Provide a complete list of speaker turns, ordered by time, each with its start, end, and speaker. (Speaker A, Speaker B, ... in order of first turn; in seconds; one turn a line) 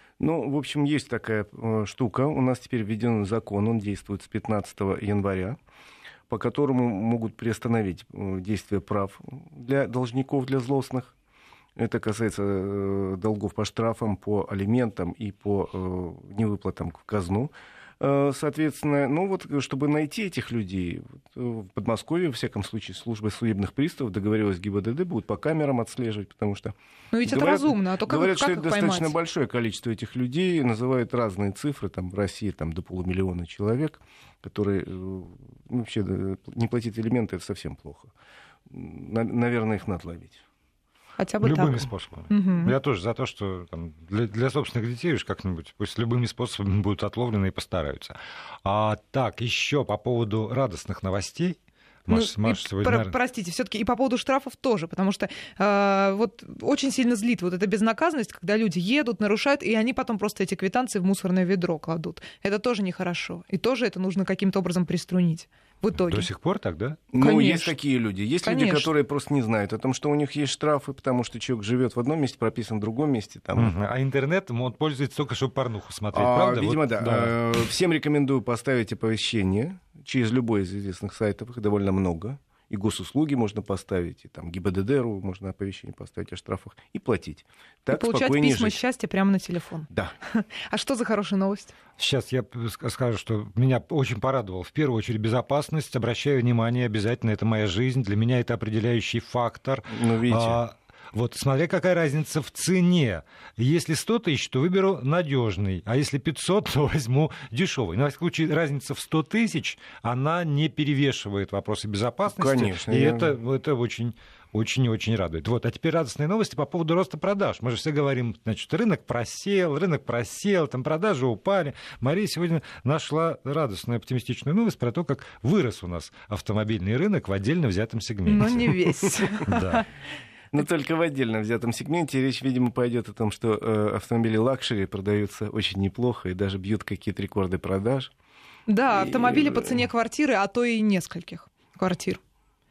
Speaker A: 0.2-5.6
Speaker A: 6.3-11.1
Speaker A: 11.8-26.7
Speaker B: 27.1-29.1
Speaker A: 27.2-38.1
Speaker A: 38.7-40.4
Speaker B: 41.2-42.7
Speaker C: 41.4-53.1
Speaker B: 52.1-66.3
Speaker C: 66.0-67.0
Speaker A: 67.1-73.7
Speaker B: 67.2-67.7
Speaker B: 68.4-68.9
Speaker C: 73.5-77.4
Speaker A: 76.1-88.8
Speaker B: 87.9-91.7
Speaker C: 92.0-128.8
Speaker A: 99.9-100.6
Speaker A: 112.3-113.3
Speaker B: 128.2-129.8
Speaker A: 129.0-129.4
Speaker C: 129.4-129.8
Speaker A: 130.5-138.1
Speaker B: 138.7-142.2
Speaker A: 138.9-139.9